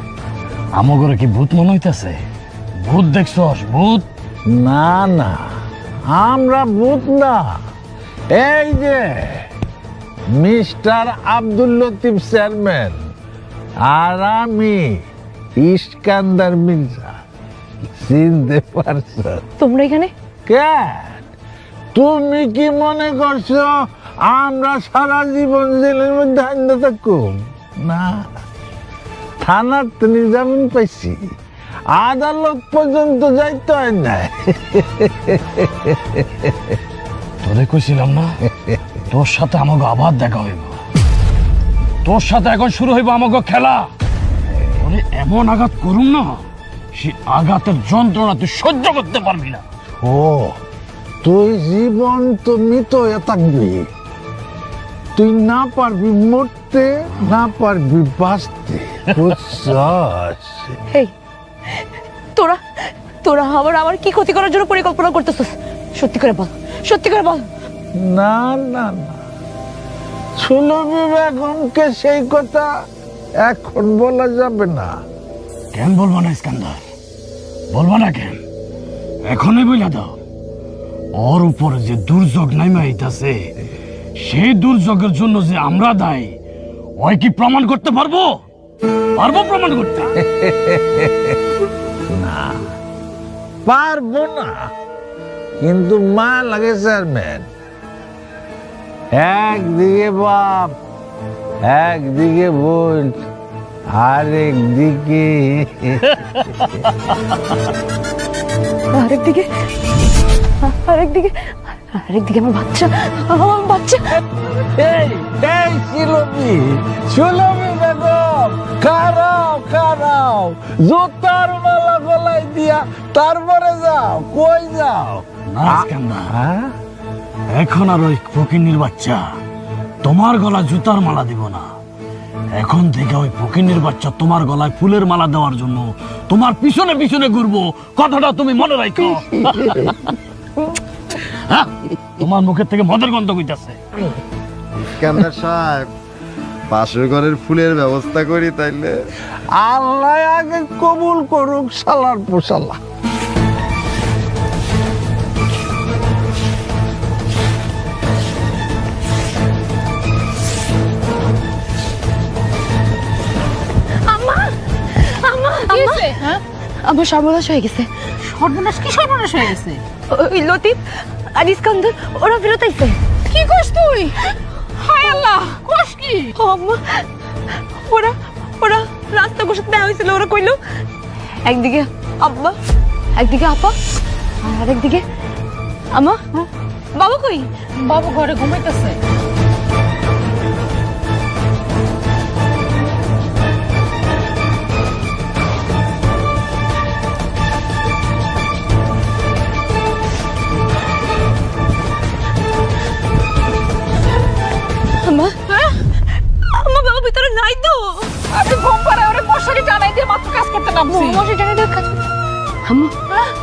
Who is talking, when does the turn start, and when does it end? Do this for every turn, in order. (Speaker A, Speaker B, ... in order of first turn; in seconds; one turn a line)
Speaker A: 0.7-2.2
Speaker A: 2.8-4.1
Speaker B: 4.5-5.5
Speaker B: 6.1-7.6
Speaker B: 8.3-9.4
Speaker B: 10.3-13.0
Speaker B: 13.8-15.0
Speaker B: 15.6-17.2
Speaker B: 17.9-19.4
Speaker C: 19.6-20.1
Speaker B: 20.5-21.3
Speaker B: 21.9-23.7
Speaker B: 24.2-28.3
Speaker B: 29.4-31.3
Speaker B: 31.9-36.8
Speaker A: 37.4-38.3
Speaker B: 38.5-38.8
Speaker A: 39.1-40.8
Speaker A: 42.0-43.9
Speaker A: 44.8-46.4
Speaker A: 46.9-49.6
Speaker B: 50.0-50.6
Speaker B: 51.2-53.9
Speaker B: 55.1-60.8
Speaker C: 62.4-62.6
Speaker C: 63.2-67.5
Speaker B: 68.0-69.2
Speaker B: 70.4-72.7
Speaker B: 73.4-75.0
Speaker A: 75.7-76.8
Speaker A: 77.7-78.4
Speaker A: 79.3-80.2
Speaker A: 81.2-83.5
Speaker A: 84.2-86.3
Speaker A: 87.0-88.4
Speaker A: 89.2-90.1
Speaker B: 90.2-91.4
Speaker B: 92.1-92.7
Speaker B: 93.7-94.7
Speaker B: 95.6-97.5
Speaker B: 99.1-100.7
Speaker B: 101.7-103.2
Speaker B: 103.9-106.2
Speaker C: 108.9-109.5
Speaker C: 110.6-114.2
Speaker B: 114.7-126.7
Speaker A: 125.5-126.3
Speaker A: 127.5-129.3
Speaker A: 130.0-131.7
Speaker A: 132.5-140.1
Speaker A: 141.3-143.8
Speaker D: 145.0-145.9
Speaker D: 146.7-148.9
Speaker B: 149.5-152.8
Speaker C: 164.1-166.1
Speaker E: 165.7-166.4
Speaker C: 166.8-167.9
Speaker E: 168.2-169.8
Speaker C: 170.1-170.8
Speaker C: 171.3-173.0
Speaker E: 173.2-176.3
Speaker C: 176.3-177.0
Speaker C: 177.8-180.6
Speaker C: 181.4-182.5
Speaker C: 183.1-183.7
Speaker C: 184.4-185.0
Speaker C: 185.9-186.2
Speaker C: 186.9-187.5
Speaker E: 187.8-189.0
Speaker C: 205.0-205.4
Speaker C: 206.5-207.9
Speaker E: 208.3-211.2
Speaker C: 210.9-212.0
Speaker C: 212.7-212.9